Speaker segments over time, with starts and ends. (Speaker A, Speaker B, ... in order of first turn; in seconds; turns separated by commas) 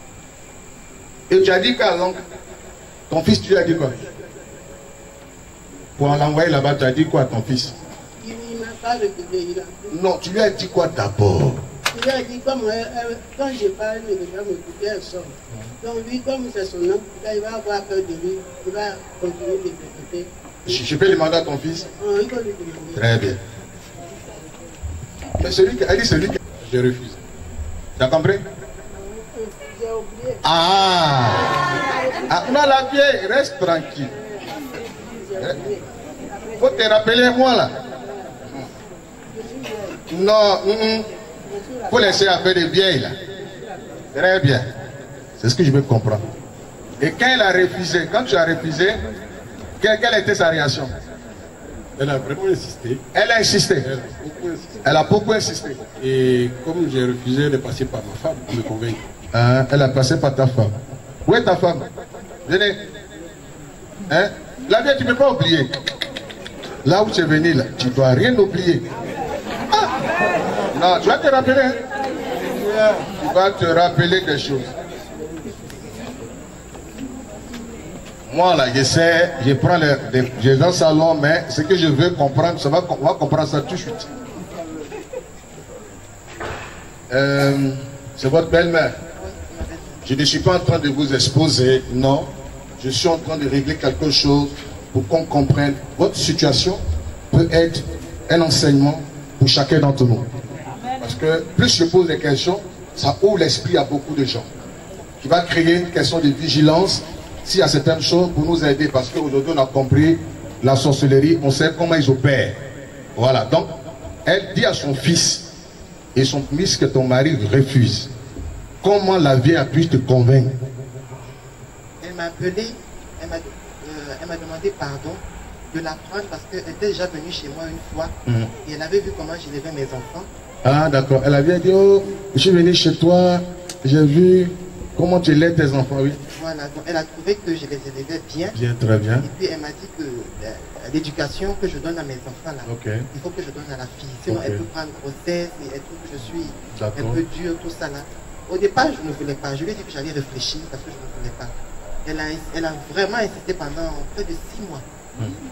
Speaker A: 1.3-2.2, Speaker A: 3.1-4.0, Speaker A: 6.0-7.8, Speaker B: 8.2-9.9, Speaker A: 9.9-11.6, Speaker B: 11.9-20.3, Speaker A: 20.7-21.9, Speaker B: 22.0-23.1, Speaker A: 22.9-23.4, Speaker A: 25.4-26.4, Speaker C: 26.5-27.2, Speaker A: 28.0-28.4, Speaker B: 28.9-30.4, Speaker A: 30.4-31.6, Speaker B: 31.5-32.6, Speaker A: 32.3-34.1, Speaker B: 35.0-37.2, Speaker A: 36.6-37.7, Speaker B: 38.0-38.4, Speaker B: 39.3-40.0, Speaker A: 40.1-41.1, Speaker B: 41.5-42.4, Speaker A: 41.9-43.2, Speaker A: 44.1-44.7, Speaker A: 45.4-46.2, Speaker A: 47.0-49.0, Speaker A: 49.8-50.9, Speaker C: 52.0-53.0, Speaker A: 53.1-53.9, Speaker C: 53.8-55.1, Speaker A: 54.8-55.8, Speaker C: 55.8-59.0, Speaker A: 59.3-60.7, Speaker A: 61.2-61.9, Speaker A: 62.5-62.8, Speaker A: 64.1-65.8, Speaker A: 66.8-68.8, Speaker A: 70.7-71.8, Speaker A: 73.1-74.7, Speaker A: 78.3-84.1, Speaker A: 87.1-89.0, Speaker D: 89.2-90.0, Speaker A: 90.0-100.3, Speaker A: 101.0-104.5, Speaker A: 105.2-112.6, Speaker A: 113.2-113.7, Speaker A: 114.2-115.5, Speaker A: 116.2-118.1, Speaker A: 118.8-120.5, Speaker D: 122.0-128.1, Speaker D: 128.6-130.3, Speaker A: 130.6-136.2, Speaker D: 136.3-138.6, Speaker A: 138.5-139.3, Speaker D: 139.2-151.5, Speaker A: 142.7-143.1, Speaker A: 144.3-144.6, Speaker A: 146.8-147.2, Speaker D: 152.1-154.8